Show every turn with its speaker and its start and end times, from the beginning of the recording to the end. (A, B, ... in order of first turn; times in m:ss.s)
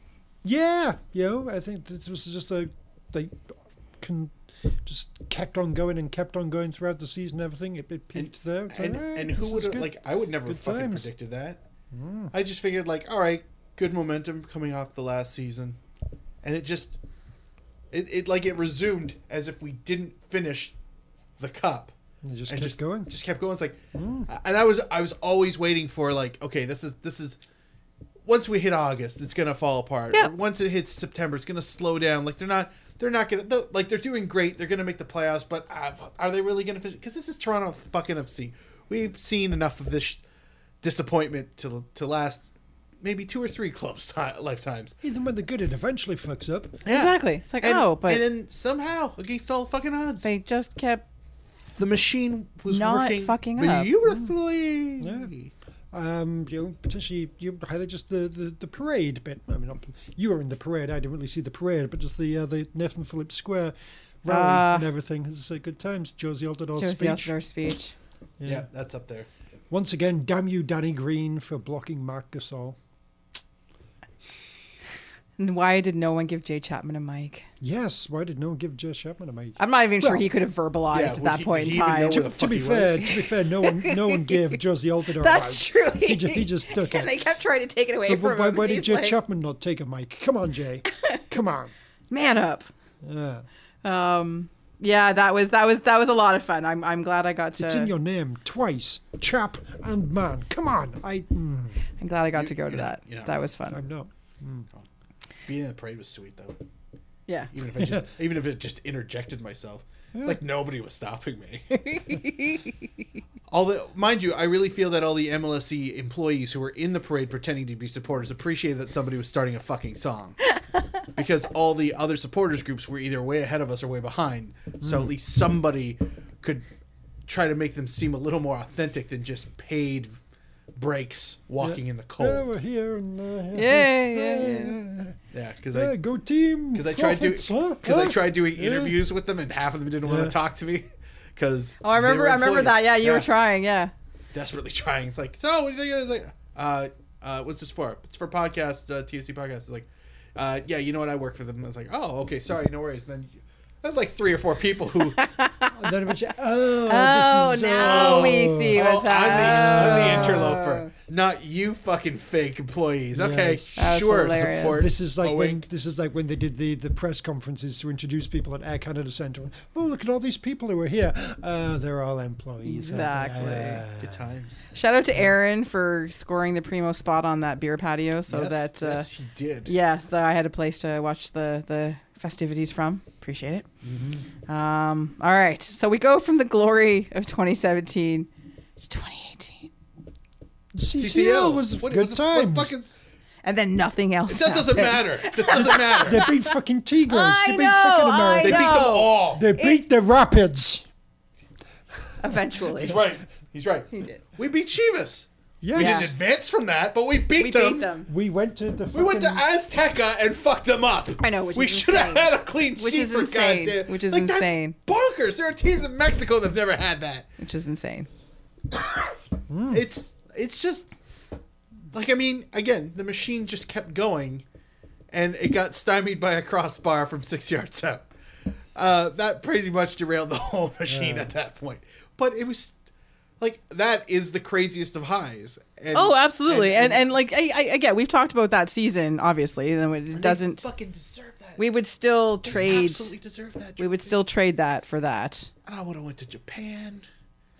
0:00.4-0:11.1 A
0:08.1-0:11.6 B
0:11.9-0:12.3 A
0:12.3-0:15.8 B
0:16.4-0:17.0 B
0:17.9-0:20.7 B
0:21.4-0:21.9 B
0:22.2-0:23.1 A
0:22.5-0:27.4 B
0:23.9-0:24.3 A
0:28.2-0:40.2 B
0:40.8-0:42.5 B
0:43.0-0:44.9 B
0:45.0-0:46.8 A
0:46.8-0:50.3 B
0:46.9-0:48.2 C
0:50.2-0:51.0 C
0:51.8-0:55.5 B
0:52.7-0:53.9 C
0:54.0-0:54.3 A
0:55.0-0:55.3 A
0:55.9-1:07.3 A
1:04.3-1:04.9 C
1:06.8-1:07.9 C
1:08.4-1:08.6 A
1:08.4-1:09.3 B
1:09.7-1:12.8 A
1:15.4-1:17.5 C
1:17.6-1:20.3 A
1:19.6-1:22.3 C
1:20.9-1:23.2 B
1:22.1-1:27.1 A
1:23.6-1:24.5 C
1:25.2-1:29.2 C
1:28.1-1:31.7 A
1:30.9-1:31.2 C
1:32.1-1:32.7 C
1:33.0-1:33.4 A
1:33.8-1:37.9 C
1:37.6-1:41.8 A
1:42.0-1:43.8 C
1:42.3-1:43.4 B
1:43.7-1:44.7 A
1:45.4-1:46.6 B
1:47.5-1:51.9 B
1:50.1-1:50.4 A
1:51.9-1:52.6 C
1:53.5-2:00.4 B
2:01.1-2:06.6 B
2:04.8-2:05.1 A
2:07.3-2:10.1 B
2:10.8-2:12.4 B
2:11.6-2:15.2 A
2:13.5-2:14.8 C
2:15.3-2:16.0 B
2:15.7-2:19.0 A
2:16.7-2:23.3 B
2:20.0-2:20.3 A
2:21.8-2:23.9 C
2:24.3-2:35.2 B
2:35.2-2:35.8 C
2:35.8-2:38.8 A
2:36.8-2:40.9 C
2:37.8-2:45.6 B
2:39.4-2:40.5 A
2:43.1-2:54.2 A
2:43.8-2:44.8 C
2:52.6-2:53.8 C
2:54.0-2:54.7 B
2:54.7-2:59.1 C
2:58.3-2:59.7 B
2:59.7-3:03.7 C
3:03.8-3:04.2 B
3:04.5-3:09.7 C
3:10.7-3:12.7 A
3:11.0-3:12.9 B
3:13.4-3:16.5 C
3:14.3-3:16.2 B
3:16.0-3:20.8 A
3:17.1-3:19.8 C
3:18.4-3:19.5 B
3:22.2-3:23.0 C
3:22.8-3:27.9 B
3:23.9-3:24.2 C
3:25.6-3:26.1 A
3:25.8-3:26.1 C
3:27.4-3:28.1 C
3:28.1-3:29.4 A
3:28.9-3:37.3 B
3:31.2-3:34.8 C
3:37.4-3:38.1 C
3:38.7-3:39.1 B
3:39.5-3:39.8 A
3:39.7-3:40.9 B
3:41.9-3:44.4 B
3:45.1-3:48.0 B
3:48.7-3:52.7 B
3:50.9-3:51.3 A
3:53.4-3:57.1 B
3:55.9-4:00.6 C
4:00.1-4:01.6 B
4:01.6-4:03.1 C
4:02.4-4:04.2 B
4:03.8-4:05.5 C
4:05.6-4:07.0 B